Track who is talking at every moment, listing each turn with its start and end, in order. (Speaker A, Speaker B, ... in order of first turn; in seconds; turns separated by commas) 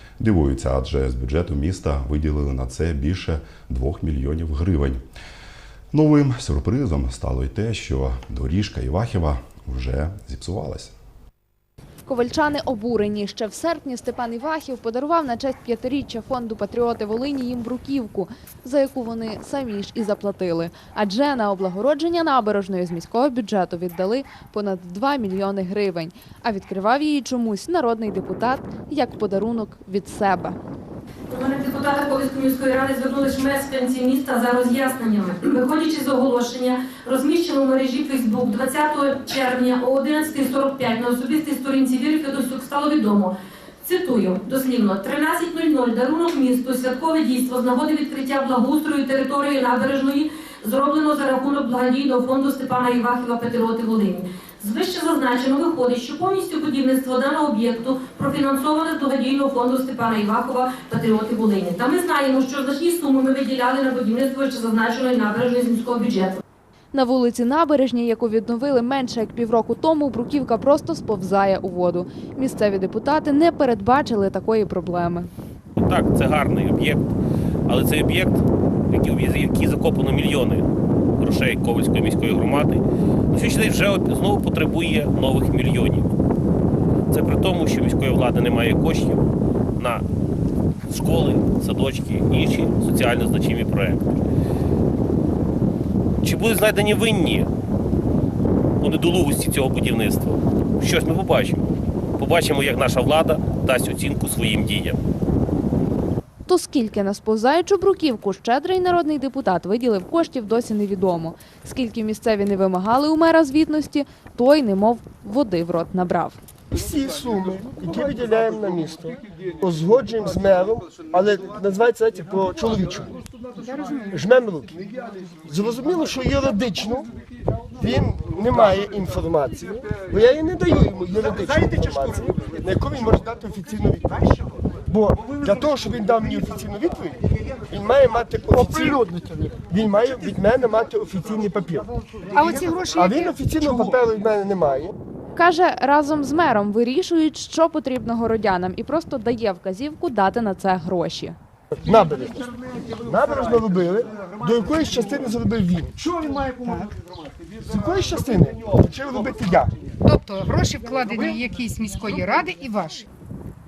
Speaker A: 0.2-5.0, Speaker A: 5.9-10.9, Speaker B: 12.0-30.6, Speaker C: 31.3-66.4, Speaker B: 66.9-75.3, Speaker D: 75.8-77.1, Speaker D: 77.7-80.7, Speaker D: 81.2-86.1, Speaker D: 87.1-89.2, Speaker D: 89.8-90.0, Speaker D: 90.9-94.2, Speaker D: 96.2-97.5, Speaker D: 98.8-105.0, Speaker B: 106.5-116.4, Speaker E: 116.7-123.1, Speaker F: 123.6-124.0, Speaker E: 124.1-124.9, Speaker E: 125.4-127.1, Speaker E: 127.8-134.2, Speaker E: 134.9-141.9, Speaker F: 142.3-143.3, Speaker E: 142.9-144.9, Speaker B: 145.3-151.3, Speaker E: 151.8-152.5, Speaker E: 153.0-156.0, Speaker F: 156.5-156.9, Speaker E: 157.6-159.7, Speaker F: 160.0-163.1